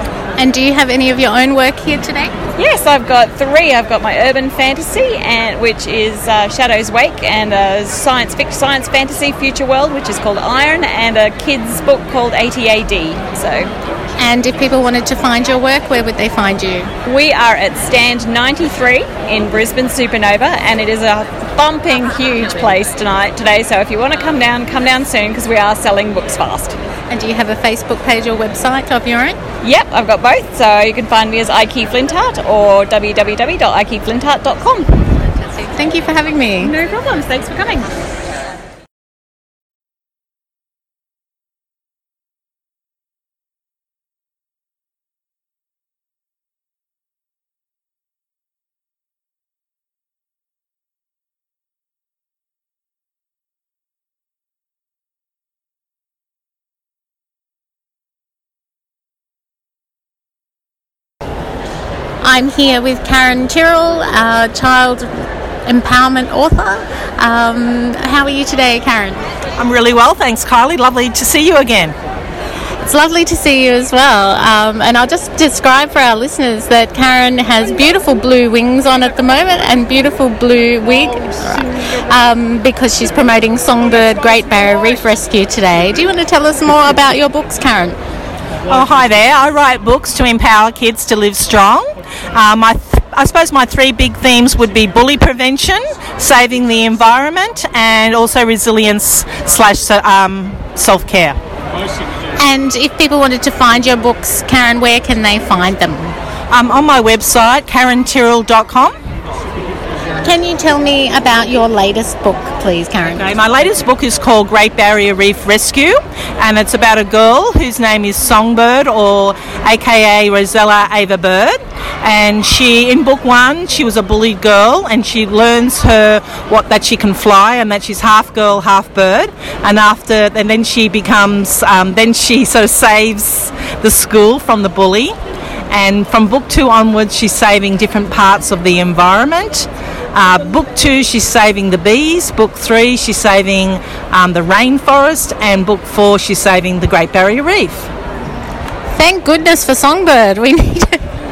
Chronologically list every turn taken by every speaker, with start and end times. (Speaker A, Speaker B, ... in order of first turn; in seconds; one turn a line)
Speaker A: 0.4-2.3
Speaker B: 2.6-13.7
Speaker A: 14.2-16.9
Speaker B: 17.1-26.8
Speaker A: 27.1-29.4
Speaker B: 29.6-35.2
Speaker A: 35.6-36.8
Speaker B: 36.6-37.9
Speaker A: 62.2-69.2
Speaker C: 69.6-72.0
Speaker A: 72.8-88.0
Speaker C: 88.7-101.4
Speaker A: 102.4-106.2
Speaker C: 106.5-108.9
Speaker A: 110.2-113.2
Speaker C: 113.2-135.1
Speaker C: 135.7-147.9
Speaker A: 148.9-151.0